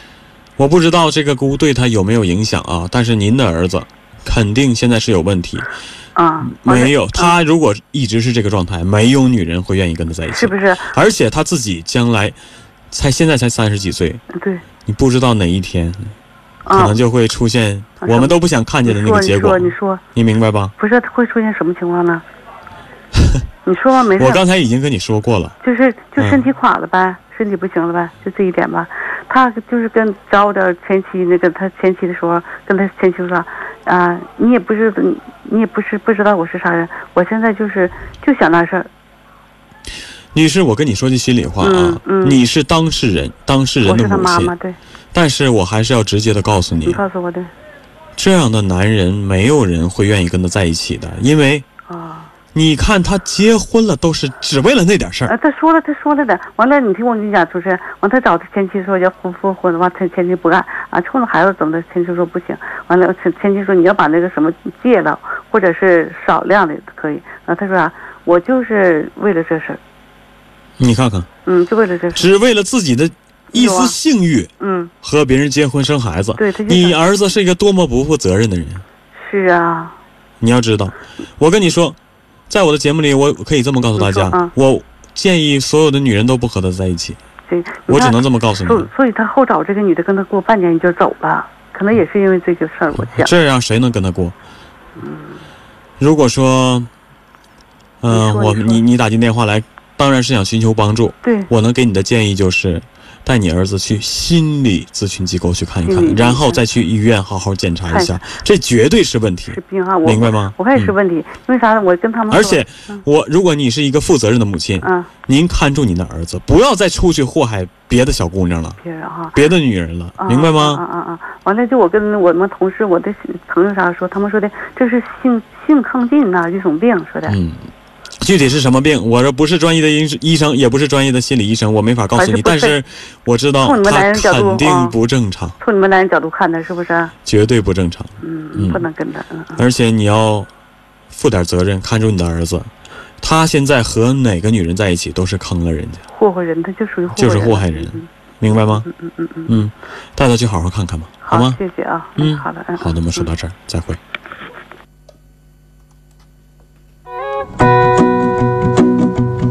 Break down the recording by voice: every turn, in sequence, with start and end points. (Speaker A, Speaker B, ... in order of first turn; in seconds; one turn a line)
Speaker A: 0.6-5.7
Speaker B: 6.2-7.3
Speaker A: 6.4-12.4
Speaker B: 10.3-10.9
Speaker A: 12.9-14.2
Speaker B: 14.3-14.6
Speaker A: 14.9-16.1
Speaker B: 16.7-17.0
Speaker A: 16.7-20.7
Speaker B: 18.0-20.0
Speaker B: 20.8-22.2
Speaker B: 23.7-24.4
Speaker A: 24.2-25.6
Speaker B: 25.6-38.9
Speaker A: 40.3-44.5
Speaker B: 41.6-42.4
Speaker B: 43.8-44.8
Speaker A: 45.1-47.0
Speaker B: 46.9-47.5
Speaker A: 48.2-51.6
Speaker B: 51.9-52.3
Speaker A: 52.5-55.3
Speaker B: 55.3-69.8
Speaker A: 70.8-71.3
Speaker B: 71.5-72.3
Speaker A: 72.2-74.5
Speaker B: 73.5-74.0
Speaker B: 74.6-74.9
Speaker A: 75.0-78.8
Speaker B: 76.4-77.0
Speaker B: 79.2-80.0
Speaker A: 80.4-82.0
Speaker A: 82.5-87.2
Speaker B: 84.0-84.5
Speaker B: 87.5-93.3
Speaker A: 87.9-88.9
Speaker A: 93.1-94.3
Speaker B: 95.0-95.4
Speaker A: 96.0-96.9
Speaker A: 98.0-110.9
Speaker B: 98.1-98.8
Speaker B: 101.2-101.5
Speaker B: 105.9-106.6
Speaker B: 107.9-108.2
Speaker B: 109.5-113.0
Speaker A: 112.3-118.8
Speaker B: 114.8-115.1
Speaker B: 118.8-119.4
Speaker A: 119.3-120.8
Speaker B: 120.2-127.4
Speaker A: 127.3-135.6
Speaker B: 132.2-132.8
Speaker B: 133.6-134.9
Speaker B: 135.6-137.1
Speaker A: 137.2-138.8
Speaker B: 138.2-139.6
Speaker A: 139.6-140.5
Speaker A: 141.1-142.7
Speaker A: 143.2-146.1
Speaker B: 146.1-148.1
Speaker A: 147.1-148.9
Speaker B: 148.9-149.5
Speaker A: 149.5-151.6
Speaker B: 151.2-153.3
Speaker A: 152.2-154.0